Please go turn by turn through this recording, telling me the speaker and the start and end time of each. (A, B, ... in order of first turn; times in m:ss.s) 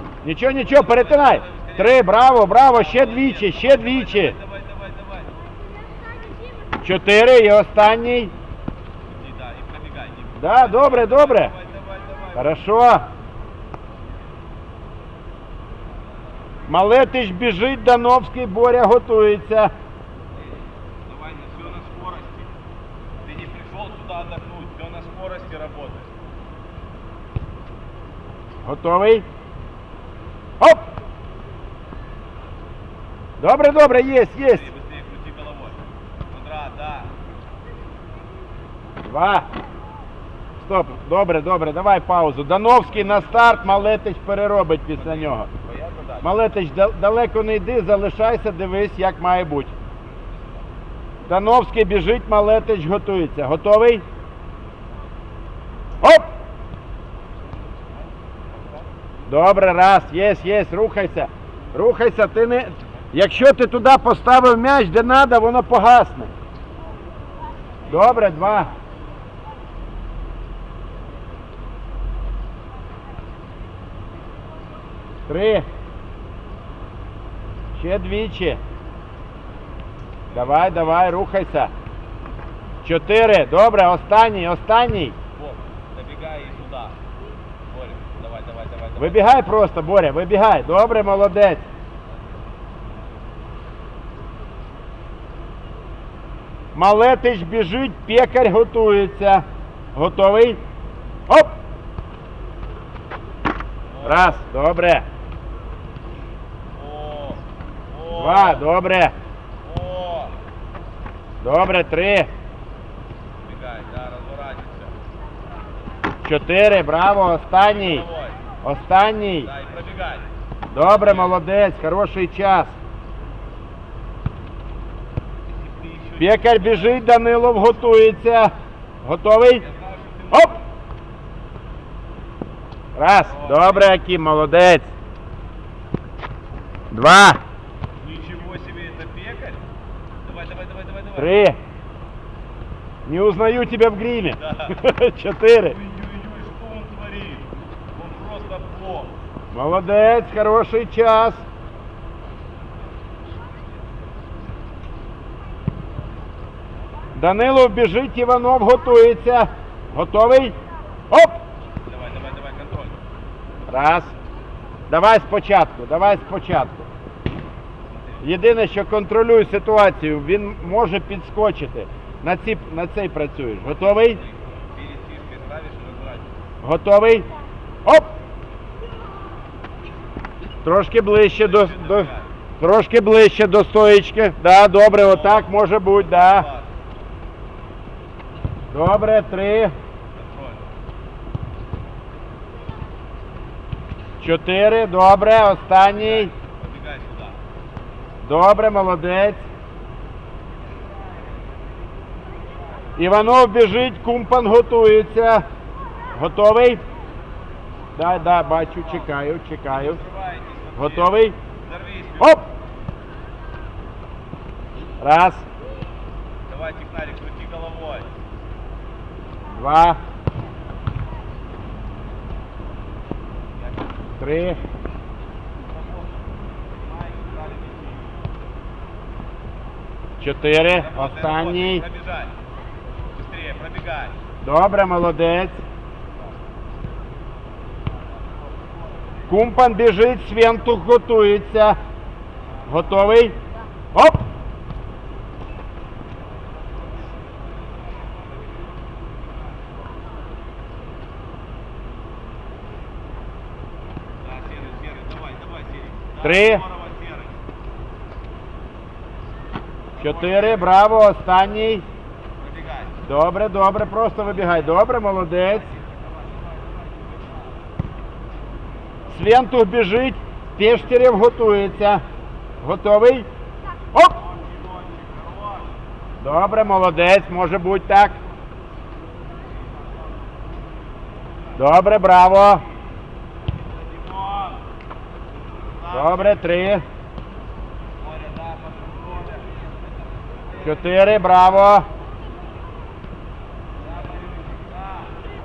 0:00.2-0:04.4 A
0:00.6-0:05.3 B
0:06.8-0:08.3 A
0:09.0-0:12.5 B
0:10.4-0:11.5 A
0:12.4-0:13.0 A
0:16.7-0:19.7 A
0:20.3-0:22.5 B
0:23.2-0:26.1 B
0:28.6-0:29.2 A
0:30.6-0:30.8 A
0:33.4-0:34.6 A
0:34.3-0:37.1 B
0:39.0-0:39.5 A
0:40.6-0:45.5 A
0:42.8-0:44.0 B
0:45.0-0:46.4 B
0:46.2-0:49.7 A
0:50.4-0:50.6 B
0:51.3-0:54.0 A
0:59.3-1:06.3 A
1:07.8-1:08.7 A
1:07.9-1:08.3 B
1:15.3-1:15.6 A
1:17.8-1:18.6 A
1:20.3-1:21.1 B
1:20.3-1:21.7 A
1:22.8-1:25.1 A
1:25.3-1:27.0 B
1:27.7-1:29.4 B
1:29.0-1:31.6 A
1:36.7-1:40.6 A
1:41.3-1:41.5 A
1:43.9-1:44.4 B
1:44.0-1:45.0 A
1:46.7-1:48.6 B
1:48.2-1:49.1 A
1:49.6-1:50.4 B
1:51.4-1:52.3 A
1:53.4-1:54.9 B
1:56.2-1:58.1 A
1:57.5-1:58.4 B
1:58.6-1:59.5 A
1:59.4-2:00.3 B
2:00.7-2:02.7 A
2:00.8-2:01.4 B
2:05.5-2:07.6 B
2:06.2-2:08.5 A
2:09.0-2:09.6 A
2:09.5-2:10.6 B
2:12.9-2:14.9 A
2:13.2-2:13.9 B
2:16.9-2:17.4 A
2:18.0-2:19.6 B
2:20.2-2:21.4 B
2:21.2-2:21.6 A
2:23.0-2:25.8 A
2:24.3-2:24.8 B
2:25.6-2:29.2 B
2:29.5-2:31.4 A
2:37.2-2:40.5 A
2:41.1-2:41.4 A
2:41.8-2:43.0 B
2:43.7-2:44.1 A
2:44.9-2:46.8 A
2:47.9-2:48.2 B
2:48.2-2:54.2 A
2:53.7-2:56.3 B
2:56.6-2:57.3 A
2:57.8-2:58.1 A
3:00.6-3:06.5 A
3:01.3-3:02.3 B
3:04.9-3:06.7 B
3:08.7-3:09.7 A
3:10.1-3:10.6 B
3:14.2-3:16.3 A
3:15.8-3:17.4 B
3:18.2-3:19.4 A
3:23.0-3:25.4 A
3:26.1-3:26.8 A
3:28.0-3:30.0 A
3:28.5-3:29.0 B
3:29.7-3:32.4 B
3:30.8-3:31.4 A
3:35.0-3:35.4 A
3:36.5-3:38.1 B
3:39.5-3:40.0 A
3:43.6-3:43.9 B
3:44.2-3:44.6 A
3:45.7-3:48.1 B
3:50.2-3:51.8 A
3:50.7-3:52.3 B
3:53.1-3:54.2 B
3:54.4-3:55.6 A
3:59.3-4:01.8 A
4:02.7-4:03.4 A
4:03.9-4:04.2 A
4:14.2-4:17.4 B
4:16.2-4:16.6 A
4:19.9-4:20.8 B
4:20.0-4:21.8 A
4:22.4-4:22.9 B
4:23.1-4:25.7 A
4:25.7-4:26.8 B
4:29.1-4:32.0 A
4:32.6-4:33.3 A
4:33.9-4:34.2 A
4:34.2-4:35.7 B
4:36.2-4:38.2 A
4:41.6-4:42.6 A
4:43.5-4:44.6 B
4:45.6-4:46.4 B
4:45.9-4:46.8 A
4:48.0-4:51.3 B
4:50.6-4:51.9 A
4:53.8-4:55.2 B